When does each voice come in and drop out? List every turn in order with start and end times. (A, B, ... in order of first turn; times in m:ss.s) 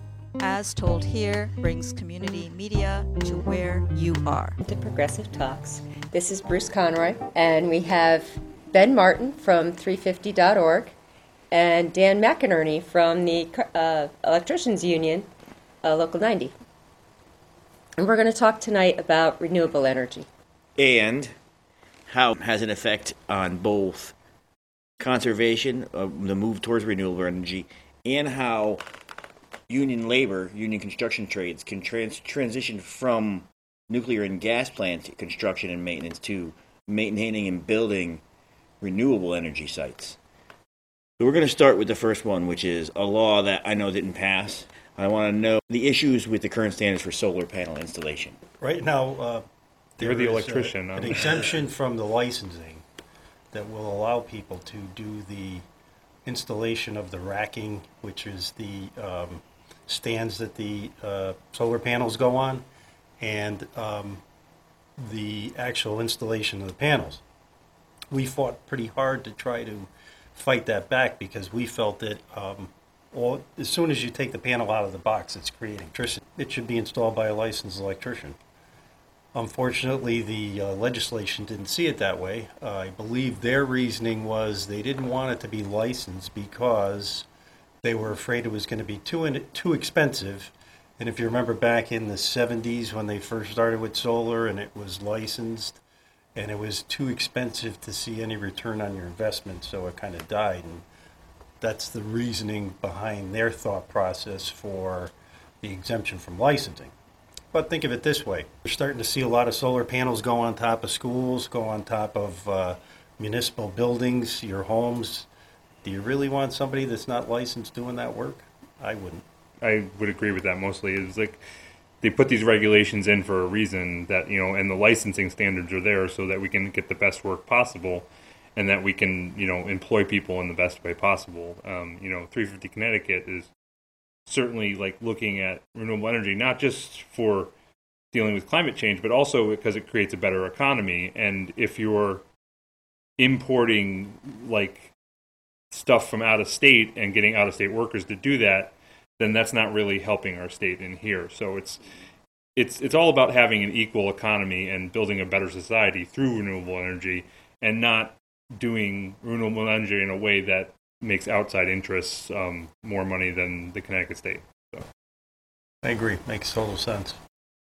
0:00.4-0:04.6 A
0:04.6-0:10.9 B
0:11.5-0:15.3 B
0:15.8-0:16.5 B
0:18.0-0:20.3 B
0:20.8-0:21.3 C
0:22.1-0:24.2 C
0:25.0-0:28.8 C
0:29.7-0:38.2 C
0:38.8-0:40.2 C
0:41.2-0:48.4 C
0:48.6-0:49.4 D
0:50.0-0:52.8 D
0:50.0-0:51.6 E
0:53.5-0:55.6 D
0:56.3-1:02.6 D
1:03.2-1:04.2 D
1:05.0-1:07.2 D
1:08.1-1:18.4 D
1:19.4-1:27.3 D
1:27.8-1:35.8 D
1:36.4-1:40.8 D
1:41.6-1:46.9 D
1:47.5-1:55.3 D
1:55.8-1:59.2 D
1:59.6-2:01.4 E
2:02.0-2:13.5 E
2:14.3-2:17.5 E
2:18.1-2:22.2 E
2:23.2-2:24.9 E
2:25.7-2:31.8 E
2:32.6-2:44.8 E
2:45.8-2:47.2 D